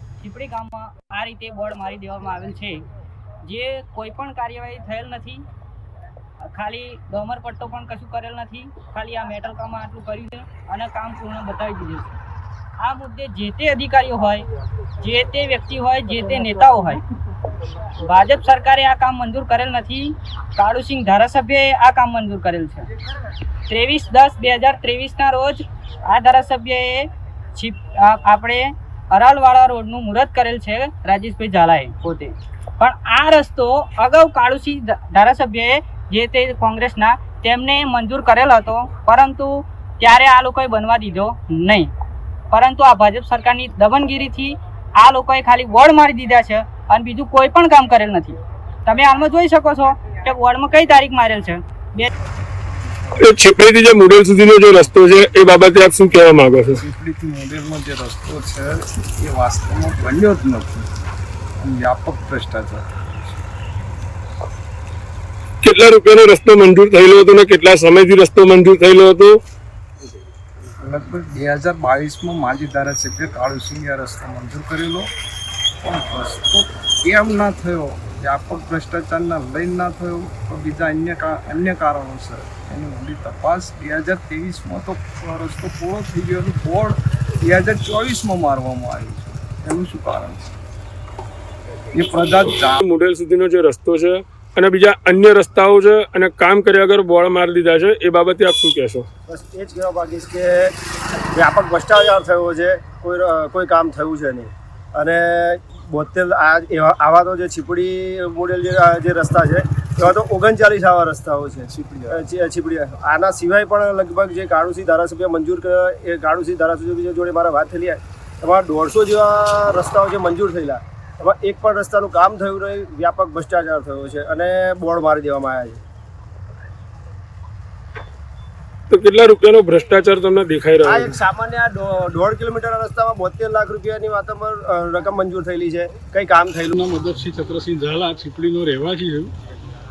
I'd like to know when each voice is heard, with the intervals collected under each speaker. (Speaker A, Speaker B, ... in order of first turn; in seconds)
Speaker A: 0.2-2.8, 3.5-5.4, 6.5-12.2, 12.8-14.4, 15.0-17.0, 18.1-22.9, 23.7-41.9, 42.5-52.1
Speaker B: 53.2-56.8, 65.6-69.4, 92.8-99.0, 128.9-131.2
Speaker C: 56.6-60.9, 61.6-63.4, 70.8-75.1, 75.8-90.5, 91.9-92.8, 111.8-112.2
Speaker D: 99.3-100.7, 101.3-125.8, 130.8-136.7
Speaker E: 136.7-139.3